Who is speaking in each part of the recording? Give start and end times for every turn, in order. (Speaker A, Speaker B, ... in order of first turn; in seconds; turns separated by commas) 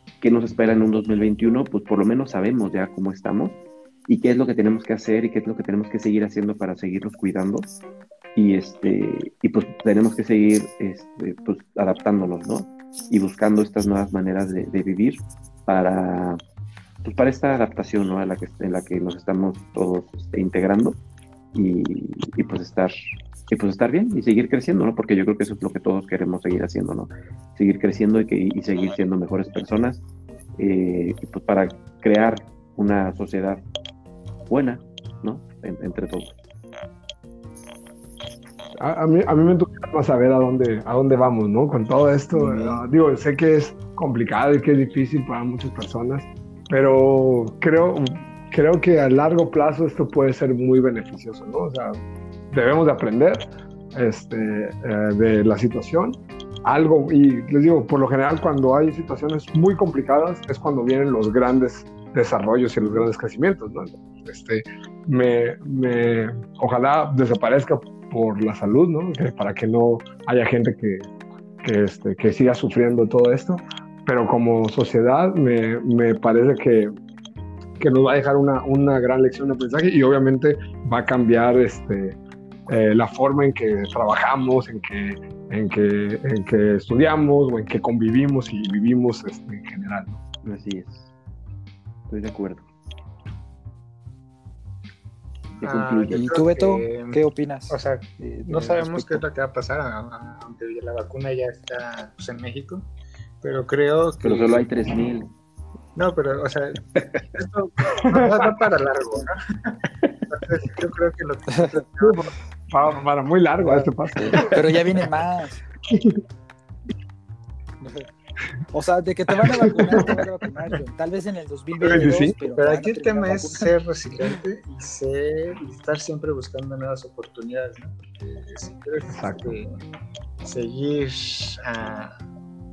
Speaker A: 0.2-7.7, Speaker A: 8.3-16.4, Speaker A: 17.0-21.0, Speaker A: 21.5-22.9, Speaker A: 23.5-30.0, Speaker A: 30.6-33.6, Speaker A: 34.5-36.3, Speaker B: 38.8-71.1, Speaker C: 42.5-42.8, Speaker B: 71.6-76.9, Speaker B: 77.8-90.2, Speaker A: 90.4-91.1, Speaker A: 92.1-92.7, Speaker D: 95.6-102.9, Speaker A: 95.6-96.2, Speaker C: 96.1-99.2, Speaker D: 103.4-105.0, Speaker A: 104.2-105.3, Speaker D: 106.0-112.3, Speaker B: 108.0-108.5, Speaker C: 111.5-111.8, Speaker B: 112.0-114.6, Speaker C: 114.5-115.6, Speaker B: 115.9-116.2, Speaker C: 117.8-118.1, Speaker C: 118.7-123.7, Speaker B: 119.4-120.1, Speaker B: 121.8-122.4, Speaker D: 122.4-129.8, Speaker B: 129.1-129.6, Speaker D: 130.4-132.2